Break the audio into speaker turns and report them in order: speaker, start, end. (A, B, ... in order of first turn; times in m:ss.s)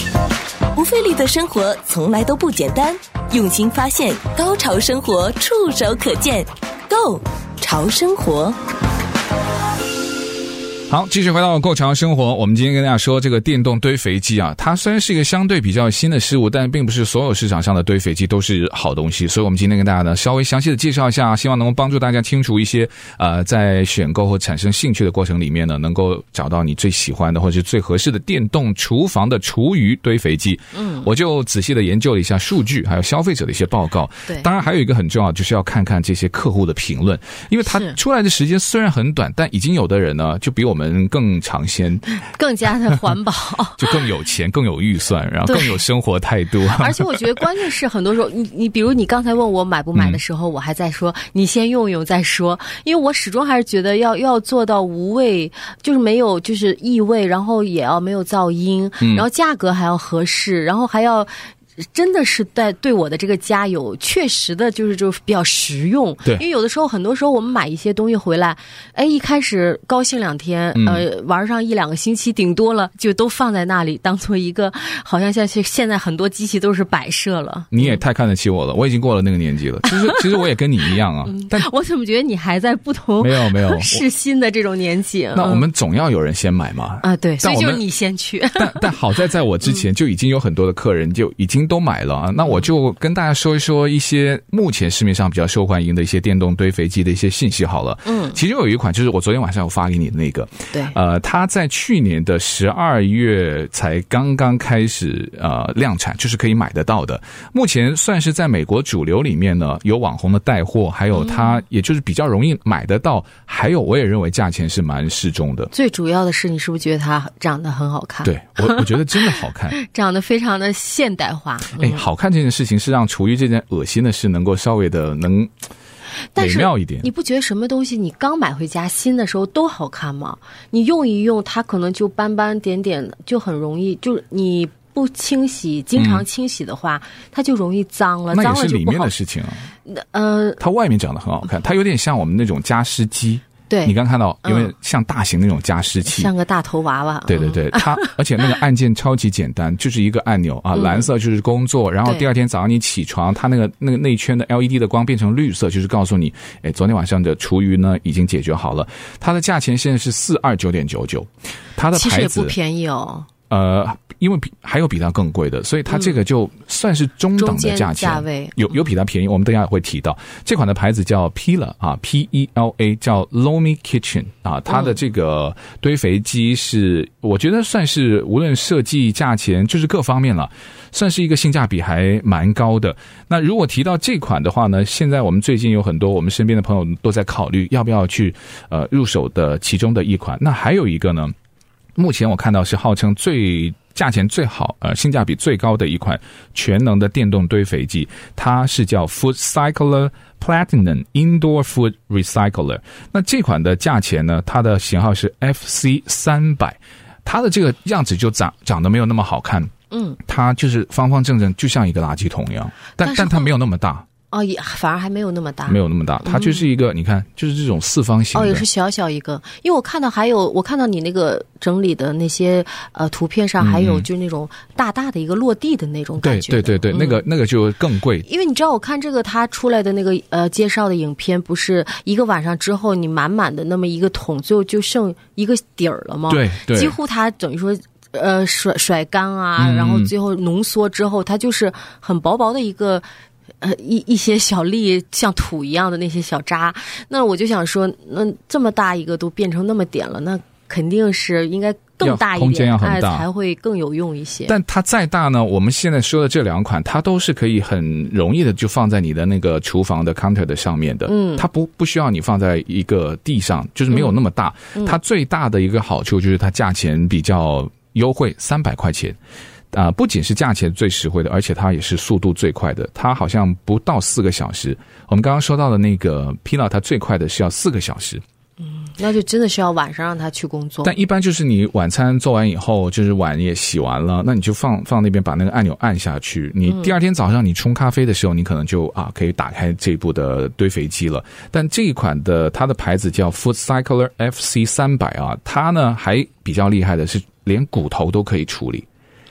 0:00.7-0:08.6 A
0:10.9-0:42.0 B
0:30.7-0:31.1 C
0:37.6-0:38.0 C
0:42.2-0:44.0 C
0:43.8-0:47.4 B
0:45.5-0:45.8 C
0:46.7-1:18.0 C
0:49.9-0:50.2 B
0:59.0-0:59.2 B
1:10.7-1:11.0 B
1:17.7-1:21.7 B
1:19.9-1:20.3 C
1:21.2-1:25.6 C
1:23.2-1:24.0 B
1:25.3-1:27.8 B
1:27.0-1:28.9 C
1:28.6-1:55.7 B
1:38.0-1:38.4 C
1:51.2-1:51.6 C
1:55.7-2:02.0 C
1:58.2-1:59.8 B
2:01.8-2:05.5 B
2:06.3-2:19.1 C
2:06.4-2:07.1 B
2:16.0-2:16.2 B
2:18.3-2:19.7 B
2:19.8-2:20.6 C
2:20.6-2:26.3 B
2:23.7-2:24.7 C
2:26.0-2:28.2 C
2:27.3-2:42.5 B
2:30.7-2:31.1 C
2:41.9-2:43.3 C
2:43.5-3:11.3 B
2:47.4-2:48.8 C
3:12.0-3:29.7 B
3:29.9-3:30.2 C
3:30.2-3:34.0 B
3:33.0-3:33.5 C
3:34.3-3:36.6 C
3:35.7-3:38.6 B
3:38.3-3:47.2 C
3:43.6-3:44.1 B
3:46.2-3:48.2 B
3:48.2-4:03.0 C
3:56.3-3:56.9 B
3:59.6-4:00.1 B
4:03.6-4:14.5 C
4:12.0-4:13.2 B
4:14.5-4:29.2 B
4:21.1-4:21.4 C
4:23.9-4:24.2 C
4:29.7-4:38.2 B
4:38.6-4:40.9 C
4:40.8-4:58.8 B